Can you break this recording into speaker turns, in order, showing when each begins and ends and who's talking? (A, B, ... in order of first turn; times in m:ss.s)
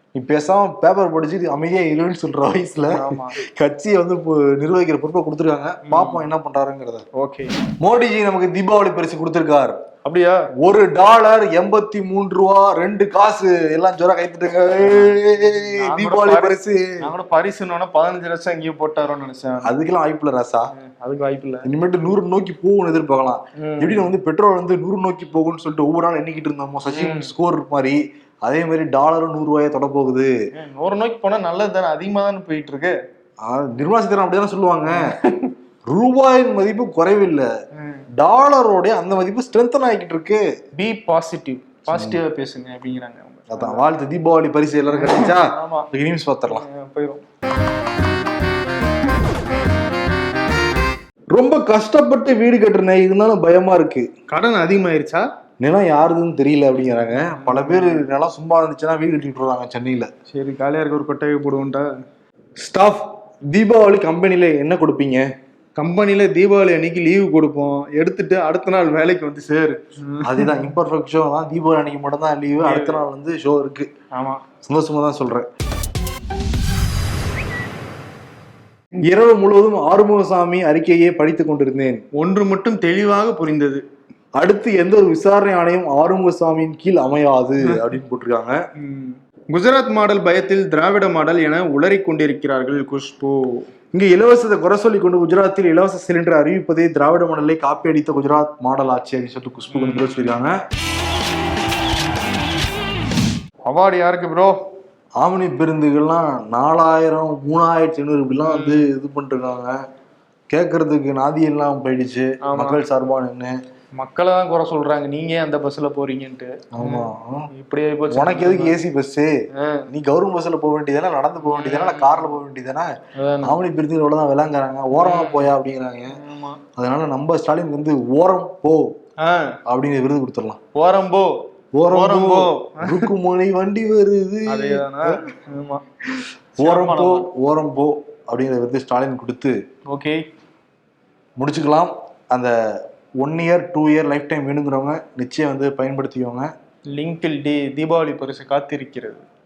0:00.2-0:07.0 A
0:02.9-0:03.4 B
0:05.9-0:06.2 B
0:07.1-0:07.5 B
0:07.8-0:09.8 A
0:10.0-0:10.5 B
0:10.6-0:17.0 A
0:14.8-0:19.7 B
0:19.6-0:20.7 A
0:20.7-0:21.7 B
0:21.6-0:30.3 A
0:23.6-0:24.1 B
0:26.9-0:27.3 B
0:30.5-0:32.9 B
0:33.4-0:35.1 A
0:34.8-0:35.6 B
0:35.9-0:37.5 A
0:37.8-0:38.0 B
0:38.2-0:40.4 A
0:40.8-0:43.8 B
0:41.9-0:42.2 A
0:43.5-0:46.6 A
0:44.9-0:45.9 B
0:46.5-0:47.2 B
0:51.3-0:54.1 A
0:54.3-0:55.2 B
0:55.6-1:00.1 A
0:57.2-0:58.0 B
1:00.3-1:01.9 B
1:02.6-1:05.3 A
1:05.8-1:10.7 B
1:10.2-1:13.9 A
1:12.6-1:13.0 B
1:14.1-1:14.4 B
1:14.6-1:15.4 A
1:19.1-1:22.0 A
1:22.1-1:23.8 B
1:24.4-1:28.6 A
1:27.6-1:27.9 B
1:28.8-1:33.7 B
1:33.9-1:40.6 A
1:39.7-1:40.4 B
1:43.6-1:44.6 B
1:45.2-1:49.7 A
1:48.4-1:48.9 B
1:50.5-1:53.5 A
1:52.5-1:52.8 B
1:54.0-1:58.8 B
1:56.7-1:57.5 A
1:58.1-1:59.3 A
1:59.5-1:59.9 B
1:59.9-2:02.9 A
2:01.4-2:02.3 B
2:03.2-2:03.6 B
2:03.4-2:06.2 A
2:04.9-2:05.5 B
2:06.1-2:06.6 B
2:06.8-2:08.9 A
2:09.2-2:09.6 B
2:09.7-2:10.6 A
2:10.7-2:11.3 B
2:11.7-2:15.2 A
2:11.9-2:13.1 B
2:14.5-2:15.8 B
2:16.6-2:19.6 A
2:16.6-2:17.3 B
2:19.8-2:20.2 B
2:21.4-2:22.5 A
2:23.2-2:26.5 A
2:26.9-2:29.2 B